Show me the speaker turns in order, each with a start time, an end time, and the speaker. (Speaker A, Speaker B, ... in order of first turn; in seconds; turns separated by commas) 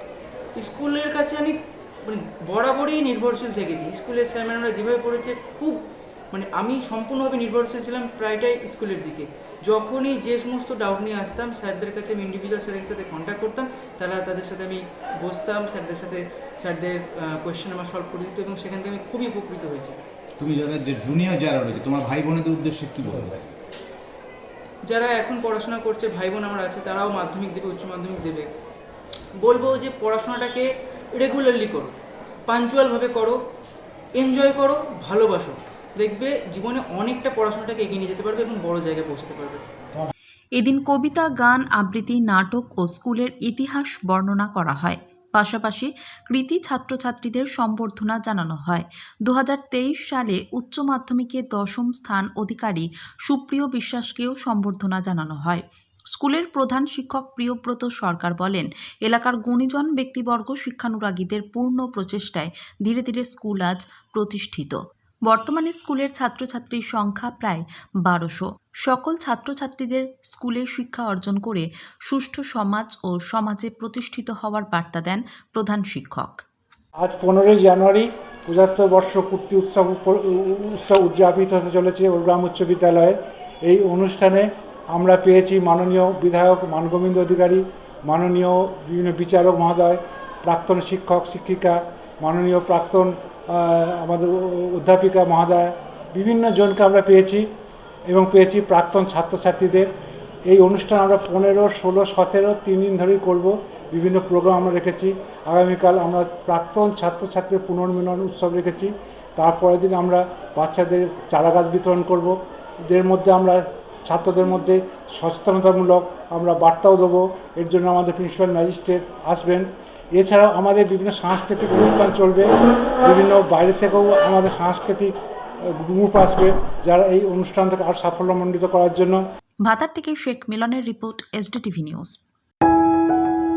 Speaker A: 0.6-20.0, Speaker B: 20.4-23.4, Speaker A: 24.9-28.5, Speaker A: 29.4-31.9, Speaker A: 32.5-33.4, Speaker A: 34.2-39.7, Speaker C: 40.6-76.4, Speaker D: 77.0-97.5, Speaker D: 98.1-99.9, Speaker D: 100.5-112.3, Speaker D: 112.9-122.5, Speaker D: 123.0-125.1, Speaker D: 125.8-129.2, Speaker C: 129.6-132.2